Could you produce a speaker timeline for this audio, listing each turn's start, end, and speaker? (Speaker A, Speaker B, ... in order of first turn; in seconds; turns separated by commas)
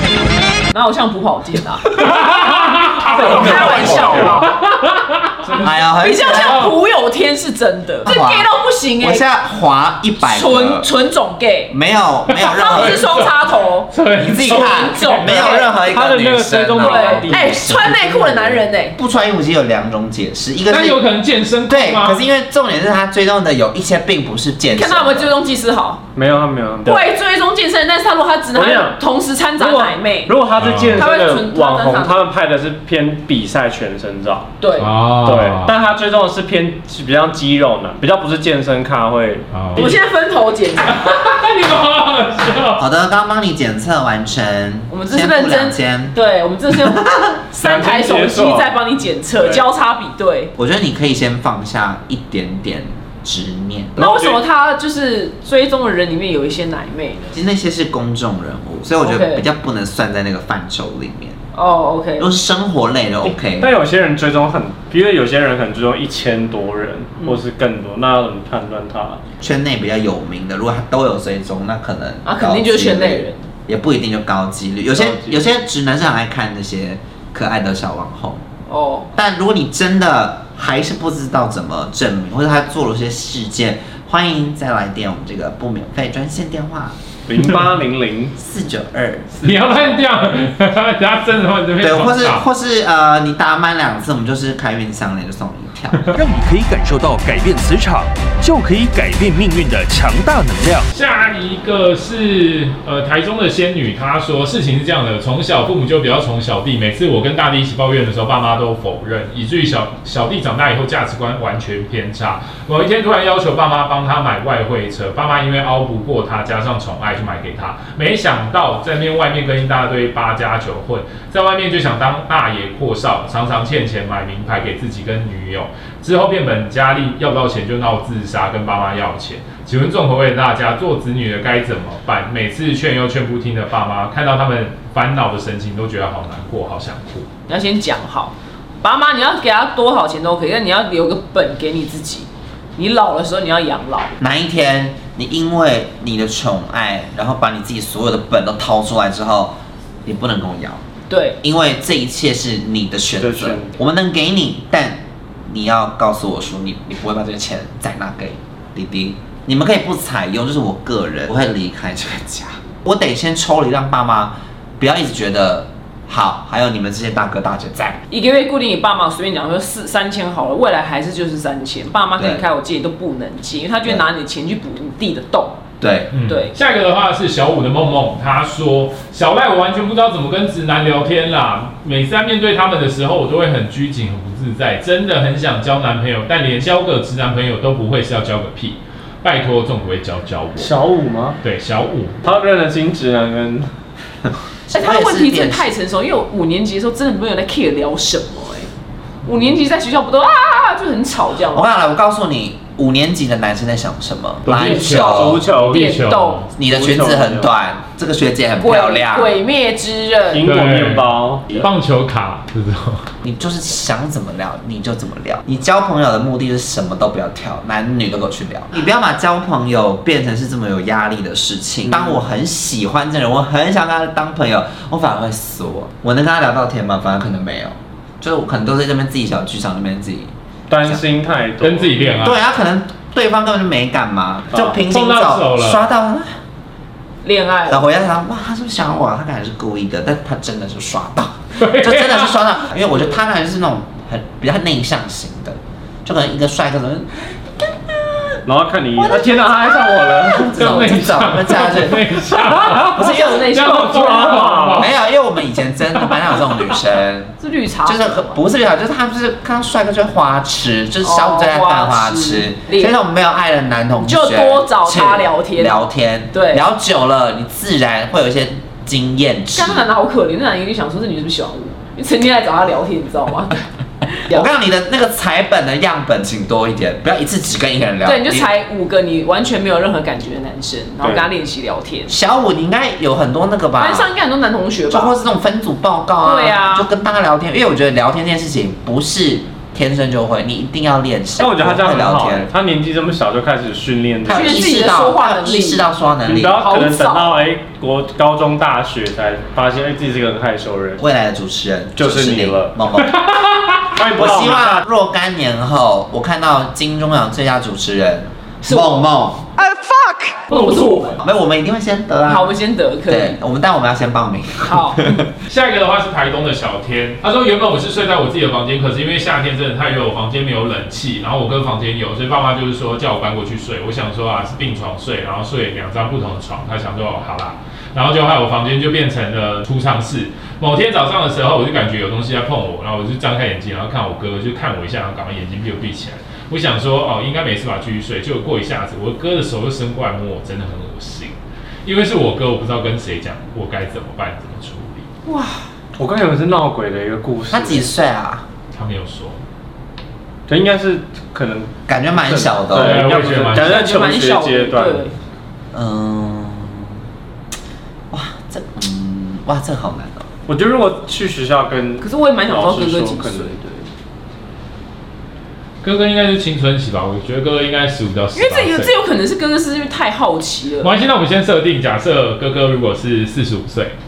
Speaker A: 0.7-4.6, Speaker B: 2.0-5.5, Speaker C: 3.0-4.4, Speaker C: 5.4-5.7, Speaker D: 5.6-6.7, Speaker A: 6.0-9.2, Speaker B: 6.2-6.7, Speaker D: 8.0-10.9, Speaker A: 10.2-11.7, Speaker D: 11.7-13.1, Speaker B: 12.3-15.5, Speaker A: 12.3-15.8, Speaker D: 14.1-18.0, Speaker C: 15.8-18.6, Speaker A: 16.7-18.9, Speaker D: 18.9-21.0, Speaker B: 20.7-22.2, Speaker D: 21.7-25.3, Speaker A: 24.7-26.1, Speaker C: 26.1-27.1, Speaker A: 26.8-32.2, Speaker C: 28.5-29.0, Speaker C: 29.6-34.5, Speaker B: 30.5-31.0, Speaker A: 34.6-34.9, Speaker B: 34.8-35.7, Speaker C: 35.2-40.0, Speaker B: 39.5-39.9, Speaker A: 39.8-41.0, Speaker B: 40.9-42.8, Speaker D: 42.8-47.4, Speaker A: 44.9-50.5, Speaker C: 47.6-48.8, Speaker C: 49.4-49.6, Speaker D: 50.6-54.1, Speaker C: 54.0-54.4, Speaker A: 54.0-57.3, Speaker D: 57.3-61.4, Speaker A: 59.0-59.4, Speaker A: 61.5-62.3, Speaker D: 62.2-63.7, Speaker C: 63.6-69.2, Speaker D: 69.4-78.4, Speaker A: 72.2-73.5, Speaker C: 74.9-75.4, Speaker A: 78.7-79.1, Speaker D: 79.1-86.9, Speaker C: 87.3-88.3, Speaker D: 88.4-90.0, Speaker B: 89.4-92.5, Speaker D: 91.8-96.0, Speaker E: 96.1-100.8, Speaker B: 100.9-137.3, Speaker A: 137.5-144.1, Speaker D: 144.2-150.8, Speaker A: 151.1-151.4, Speaker D: 151.4-168.0, Speaker C: 153.2-153.7, Speaker A: 168.1-175.6, Speaker D: 172.2-172.4, Speaker D: 175.8-176.1, Speaker B: 176.1-190.7, Speaker A: 176.3-176.5, Speaker C: 190.6-191.4, Speaker B: 191.4-192.2, Speaker C: 192.2-193.7, Speaker D: 194.7-195.8, Speaker A: 194.7-198.7, Speaker A: 199.2-201.7, Speaker D: 201.5-205.4, Speaker B: 204.4-206.5, Speaker C: 204.5-206.0, Speaker A: 204.6-205.0, Speaker A: 205.6-206.5, Speaker D: 206.6-209.3, Speaker C: 206.6-207.5, Speaker A: 208.6-210.4, Speaker C: 210.3-211.6, Speaker B: 210.4-213.0, Speaker D: 213.2-230.3, Speaker C: 221.8-222.2, Speaker C: 230.7-232.1, Speaker B: 231.6-232.4, Speaker D: 232.2-236.3, Speaker C: 234.5-234.8, Speaker B: 234.7-235.8, Speaker A: 237.2-237.8, Speaker D: 237.7-247.2, Speaker B: 241.6-242.3, Speaker C: 248.4-250.5, Speaker A: 249.1-249.4, Speaker A: 249.9-250.3, Speaker D: 250.3-252.2, Speaker B: 250.5-254.9, Speaker A: 252.4-254.5, Speaker D: 252.9-253.4, Speaker C: 253.9-254.9, Speaker D: 254.8-269.9, Speaker B: 256.0-256.4, Speaker A: 257.4-258.4, Speaker A: 261.0-262.9, Speaker A: 263.9-265.8, Speaker A: 266.3-266.6, Speaker A: 269.5-274.5, Speaker D: 274.3-278.5, Speaker A: 278.0-282.1, Speaker C: 281.0-281.3, Speaker D: 282.1-284.1, Speaker A: 283.8-285.2, Speaker D: 284.9-292.5, Speaker A: 286.2-286.9, Speaker C: 291.4-294.6, Speaker D: 294.3-296.6, Speaker A: 294.3-295.8, Speaker C: 296.2-301.0, Speaker A: 296.5-297.4, Speaker D: 301.0-303.2, Speaker C: 301.9-302.8, Speaker B: 303.0-304.0, Speaker C: 303.9-304.9, Speaker D: 304.1-309.5, Speaker A: 308.6-309.1, Speaker E: 309.7-310.4, Speaker A: 310.5-311.3, Speaker D: 311.2-315.3, Speaker A: 312.2-313.4, Speaker A: 314.6-315.0, Speaker B: 315.4-345.1, Speaker A: 345.3-345.6, Speaker C: 346.0-347.9, Speaker D: 347.5-348.4, Speaker B: 348.7-349.4, Speaker C: 350.5-355.1, Speaker D: 351.9-353.0, Speaker B: 352.7-353.9, Speaker A: 352.9-355.1, Speaker D: 355.7-357.0, Speaker D: 358.1-360.3, Speaker C: 360.5-363.6, Speaker A: 362.0-363.8, Speaker B: 365.8-368.9, Speaker A: 368.3-370.9, Speaker B: 370.8-373.9